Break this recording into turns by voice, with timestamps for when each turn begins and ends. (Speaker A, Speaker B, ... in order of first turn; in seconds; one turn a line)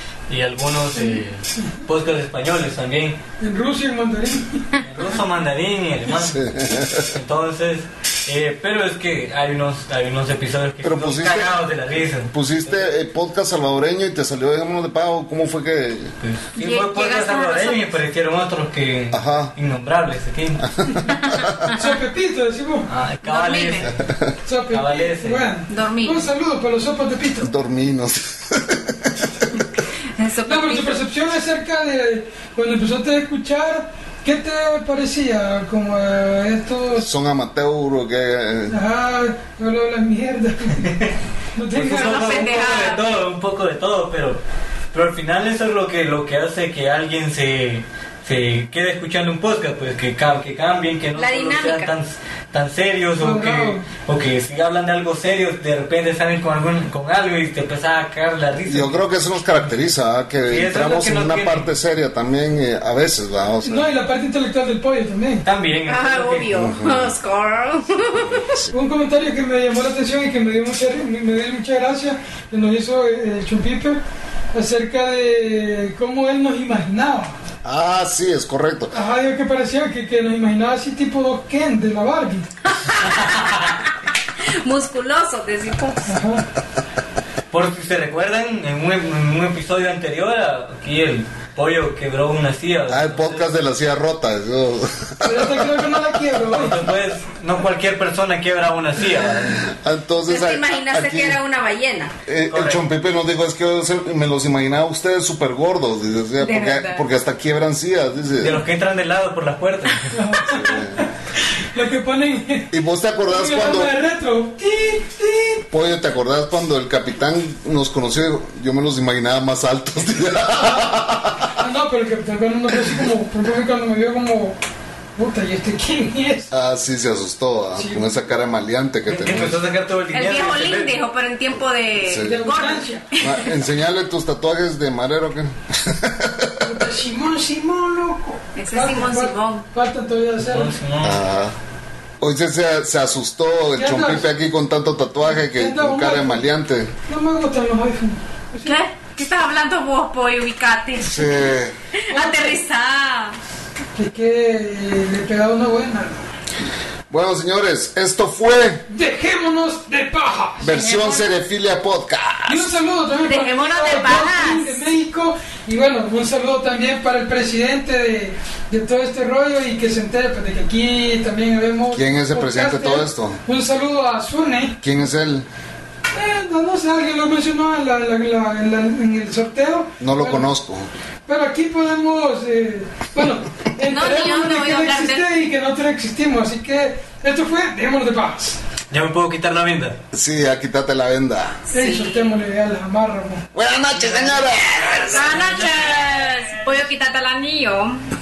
Speaker A: 0.3-3.2
Speaker B: 0.9-1.7
Speaker B: 3.4-4.7
Speaker A: 4.8-12.7
Speaker C: 6.2-7.1
Speaker C: 10.8-11.6
Speaker C: 12.3-16.1
Speaker A: 16.2-20.7
Speaker D: 16.6-17.9
Speaker C: 19.1-19.5
Speaker C: 20.9-21.5
Speaker B: 21.7-22.9
Speaker A: 22.9-23.9
Speaker D: 23.2-23.9
Speaker B: 24.5-27.5
Speaker A: 24.7-25.5
Speaker D: 25.7-26.3
Speaker C: 27.4-29.1
Speaker D: 30.2-31.0
Speaker B: 30.5-37.1
Speaker C: 37.0-38.8
Speaker B: 38.7-41.0
Speaker A: 40.8-41.1
Speaker B: 41.6-42.6
Speaker A: 41.7-44.4
Speaker D: 41.9-43.0
Speaker A: 44.9-59.1
Speaker D: 51.2-51.9
Speaker B: 53.2-53.9
Speaker C: 58.7-63.9
Speaker A: 60.5-61.7
Speaker B: 63.6-65.5
Speaker A: 65.5-66.5
Speaker D: 65.9-68.5
Speaker C: 66.5-67.1
Speaker B: 68.7-74.0
Speaker B: 74.5-77.3
Speaker C: 77.6-78.9
Speaker B: 78.9-82.5
Speaker D: 82.7-83.6
Speaker D: 84.4-86.2
Speaker B: 86.1-86.5
Speaker A: 87.5-93.5
Speaker C: 92.9-95.8
Speaker B: 95.2-96.8
Speaker A: 96.5-99.6
Speaker C: 99.5-101.4
Speaker D: 100.3-102.1
Speaker C: 102.3-108.6
Speaker A: 102.5-102.8
Speaker D: 106.4-107.0
Speaker A: 108.4-110.2
Speaker B: 110.1-111.1
Speaker C: 110.4-111.1
Speaker B: 111.6-112.7
Speaker C: 112.7-113.9
Speaker B: 113.3-115.7
Speaker C: 115.7-121.5
Speaker B: 121.6-124.6
Speaker B: 125.2-126.5
Speaker C: 126.5-129.6
Speaker B: 127.8-128.1
Speaker A: 129.1-131.0
Speaker D: 130.1-133.4
Speaker C: 132.0-132.4
Speaker B: 132.2-133.1
Speaker C: 133.2-136.7
Speaker B: 136.6-140.8
Speaker D: 138.6-139.7
Speaker A: 140.4-141.2
Speaker C: 141.0-141.6
Speaker C: 142.2-146.9
Speaker B: 143.8-144.3
Speaker B: 145.3-146.4
Speaker B: 147.1-148.8
Speaker D: 148.7-153.4
Speaker C: 151.0-151.8
Speaker B: 154.0-156.3
Speaker C: 157.1-158.9
Speaker B: 158.9-160.9
Speaker C: 160.6-162.7
Speaker D: 160.7-161.3
Speaker B: 162.5-174.8
Speaker D: 163.2-164.8
Speaker C: 171.9-173.4
Speaker C: 174.8-175.5
Speaker B: 176.1-180.5
Speaker C: 180.0-180.9
Speaker B: 181.3-188.6
Speaker D: 183.8-185.3
Speaker A: 188.9-190.0
Speaker C: 190.1-191.6
Speaker D: 191.7-192.3
Speaker B: 191.7-193.4
Speaker C: 193.5-195.6
Speaker D: 195.1-198.1
Speaker A: 195.4-195.7